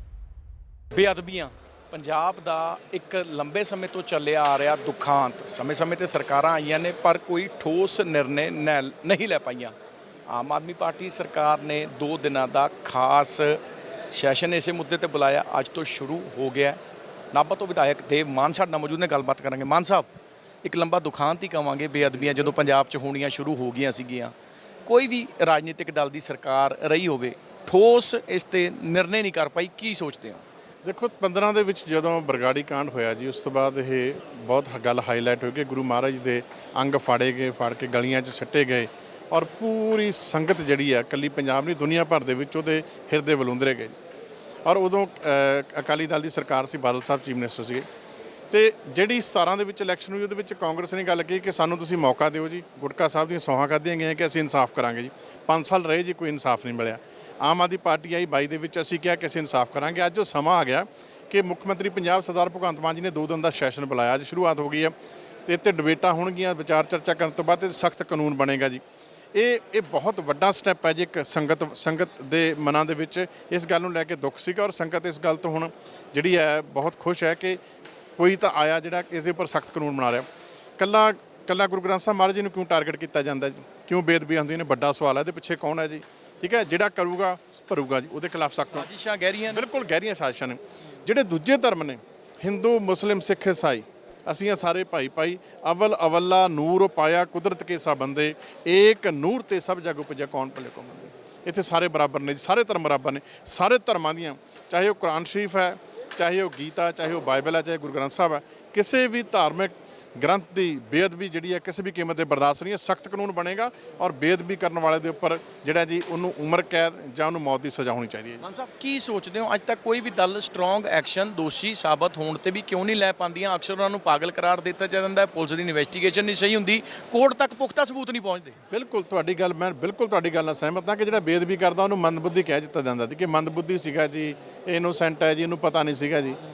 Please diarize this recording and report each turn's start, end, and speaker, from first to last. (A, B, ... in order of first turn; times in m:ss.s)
0:00.9-0:09.8 A
0:10.3-0:16.8 A
0:17.3-0:20.1 A
0:20.6-0:24.3 A
0:24.9-0:30.4 A
0:30.8-0:44.0 B
0:44.6-0:47.9 B
0:48.5-1:04.9 B
1:05.5-1:08.8 B
1:09.4-1:17.6 B
1:18.2-1:20.3 B
1:20.8-1:28.9 B
1:28.7-1:29.6 A
1:29.5-1:58.4 B
1:58.4-2:08.6 A
2:08.7-2:16.4 B